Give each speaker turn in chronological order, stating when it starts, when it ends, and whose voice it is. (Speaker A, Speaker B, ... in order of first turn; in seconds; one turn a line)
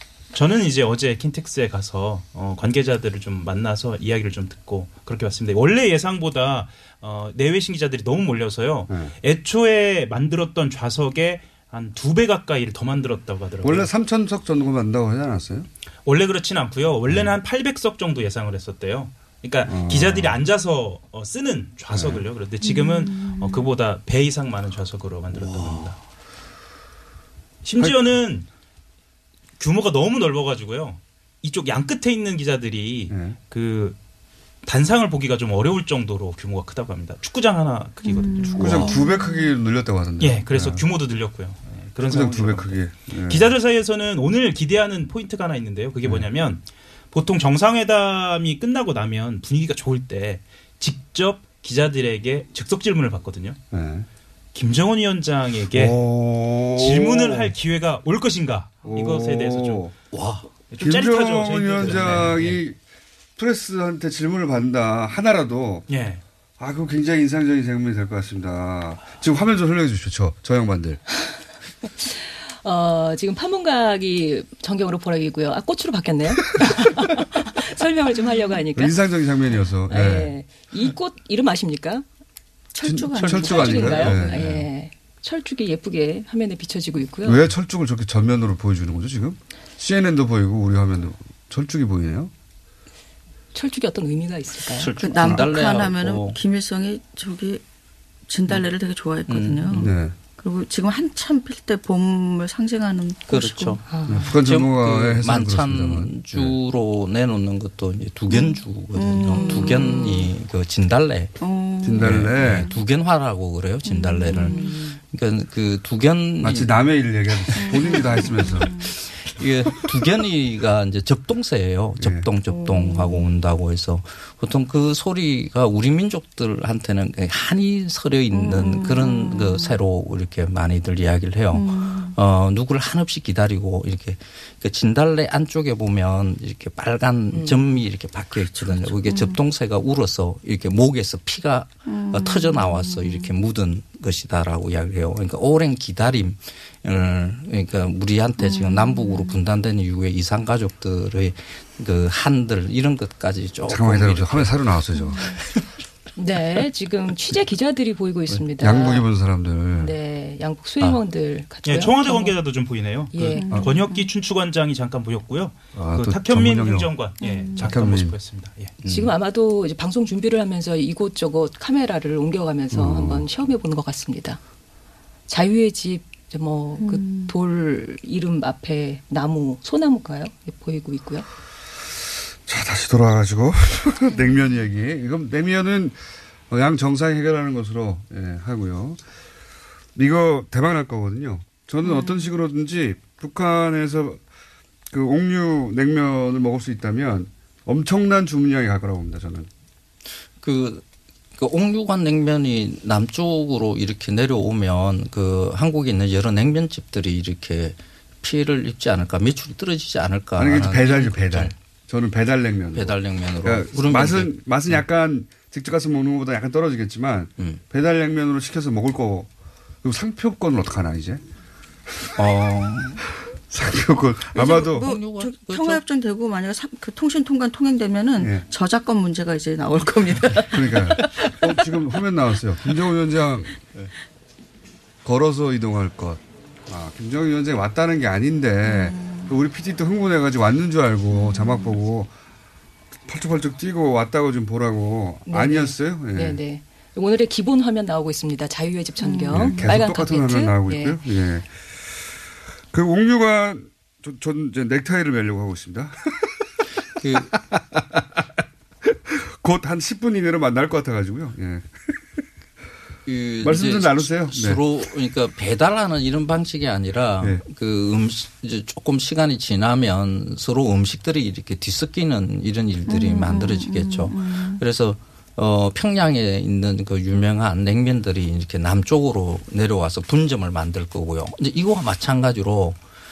Speaker A: 0.3-13.9
Speaker B: 8.9-9.1
Speaker B: 13.6-15.7
Speaker A: 16.1-26.0
Speaker B: 19.6-20.4
Speaker B: 21.9-22.2
Speaker C: 22.6-23.7
Speaker D: 25.4-25.9
Speaker A: 27.6-28.5
Speaker A: 29.6-34.0
Speaker B: 33.1-33.4
Speaker A: 34.6-38.9
Speaker C: 38.0-39.5
Speaker B: 38.6-40.8
Speaker A: 40.2-53.6
Speaker B: 42.0-43.5
Speaker B: 53.7-54.1
Speaker A: 54.5-56.0
Speaker B: 55.7-57.5
Speaker A: 56.7-59.9
Speaker B: 58.8-59.9
Speaker D: 60.1-60.5
Speaker A: 60.7-62.6
Speaker B: 60.8-62.8
Speaker D: 61.8-62.4
Speaker B: 63.4-65.9
Speaker A: 65.9-66.2
Speaker B: 66.6-71.0
Speaker E: 72.6-79.0
Speaker B: 78.7-80.3
Speaker E: 79.9-82.0
Speaker C: 82.7-84.3
Speaker B: 82.8-84.6
Speaker E: 83.3-87.4
Speaker B: 87.2-92.3
Speaker E: 93.5-94.9
Speaker D: 94.7-96.4
Speaker C: 95.0-97.6
Speaker C: 98.3-103.8
Speaker D: 99.3-99.9
Speaker B: 99.7-100.1
Speaker D: 103.3-111.3
Speaker E: 103.9-104.3
Speaker B: 104.1-106.5
Speaker C: 108.3-110.3
Speaker E: 109.4-109.7
Speaker C: 111.4-112.8
Speaker B: 111.8-112.7
Speaker D: 112.0-116.7
Speaker C: 113.8-114.8
Speaker E: 114.4-114.7
Speaker B: 116.4-118.8
Speaker D: 117.5-118.1
Speaker C: 117.6-118.9
Speaker D: 118.8-154.5
Speaker B: 122.0-122.3
Speaker C: 122.5-123.3
Speaker C: 128.3-129.8
Speaker C: 131.5-132.2
Speaker E: 137.3-137.6
Speaker C: 138.5-139.4
Speaker C: 141.9-143.3
Speaker C: 148.4-149.4
Speaker B: 153.7-155.4
Speaker C: 155.0-155.3
Speaker E: 156.2-159.1
Speaker B: 158.3-159.9
Speaker E: 159.8-162.4
Speaker A: 161.7-168.7
Speaker E: 163.1-163.5
Speaker C: 163.4-164.1
Speaker B: 165.7-166.9
Speaker C: 167.2-167.7
Speaker B: 167.6-168.1
Speaker D: 168.8-169.1
Speaker E: 168.9-174.4
Speaker B: 172.7-173.2
Speaker E: 175.3-181.2
Speaker C: 176.8-177.3
Speaker B: 182.4-186.0
Speaker C: 184.1-184.5
Speaker B: 186.5-189.0
Speaker B: 189.9-194.2
Speaker C: 191.8-192.3
Speaker B: 194.9-199.5
Speaker D: 200.4-200.8
Speaker D: 201.4-211.5
Speaker B: 210.4-219.3
Speaker D: 212.7-214.8
Speaker B: 219.8-221.2
Speaker D: 222.2-223.0
Speaker B: 223.5-224.9
Speaker C: 224.3-231.6
Speaker D: 224.4-225.8
Speaker B: 228.2-228.4
Speaker B: 230.4-233.6
Speaker B: 235.0-242.1
Speaker C: 238.6-239.3
Speaker C: 241.1-241.8
Speaker B: 243.1-246.4
Speaker E: 245.2-251.0
Speaker C: 249.0-249.7
Speaker B: 249.3-251.6
Speaker B: 252.7-256.3
Speaker D: 257.0-257.3
Speaker B: 257.1-258.2
Speaker B: 258.8-262.2
Speaker D: 263.1-282.8
Speaker B: 263.4-264.6
Speaker C: 272.9-274.6